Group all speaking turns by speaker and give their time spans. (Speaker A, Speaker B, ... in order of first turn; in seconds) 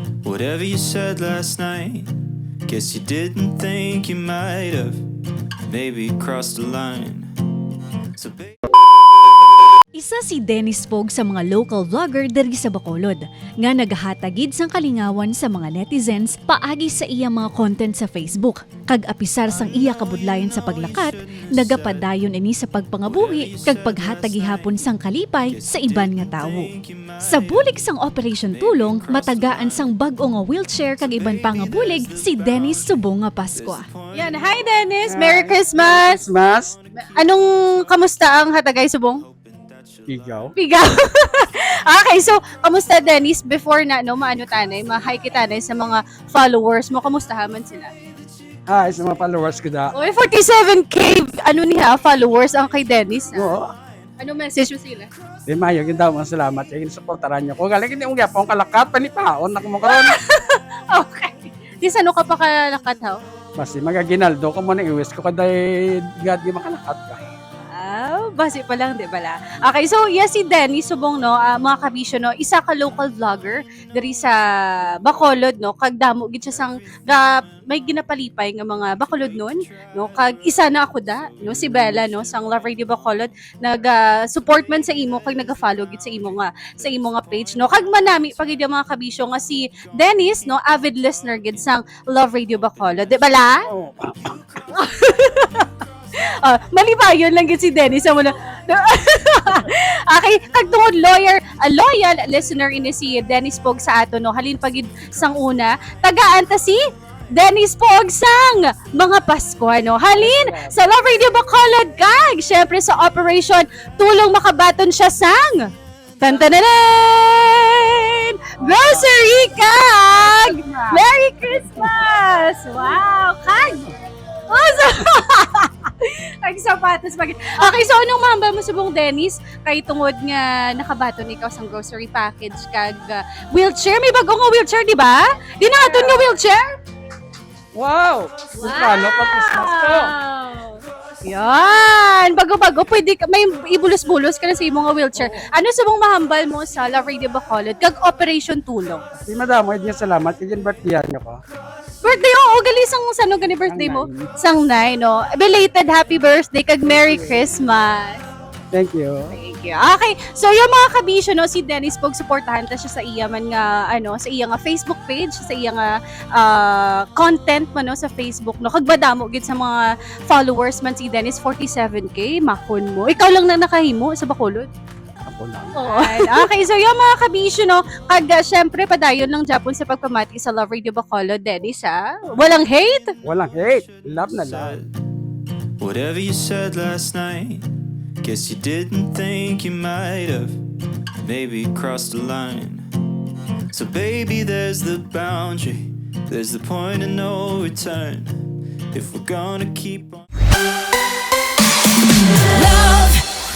Speaker A: 0.2-5.1, 5.6-7.3, 8.2-8.7, 19.5-22.3, 23.0-35.1, 35.6-40.5, 79.0-79.9, 80.5-82.8, 182.4-185.0, 185.8-190.6, 191.2-192.9, 193.7-200.3
Speaker B: 9.9-26.7, 27.2-33.9
Speaker C: 34.1-36.3, 37.0-39.2, 40.5-47.9, 49.9-53.6, 54.2-55.1, 59.9-63.2, 67.7-74.3, 75.0-93.6, 94.7-95.7, 96.4-106.8, 107.3-115.6, 116.2-123.9, 124.5-136.7, 138.6-149.0, 152.0-158.2, 159.3-174.7, 175.8-183.1
Speaker D: 35.1-36.8, 40.1-40.5, 48.7-49.9, 53.3-53.7, 55.5-60.2, 63.6-67.3, 93.7-94.4, 110.1-110.8, 120.4-121.0, 135.8-136.3, 137.7-140.1, 145.1-145.5, 149.2-151.4, 153.7-154.3, 156.9-157.5, 158.7-159.4, 175.3-175.9, 183.2-184.8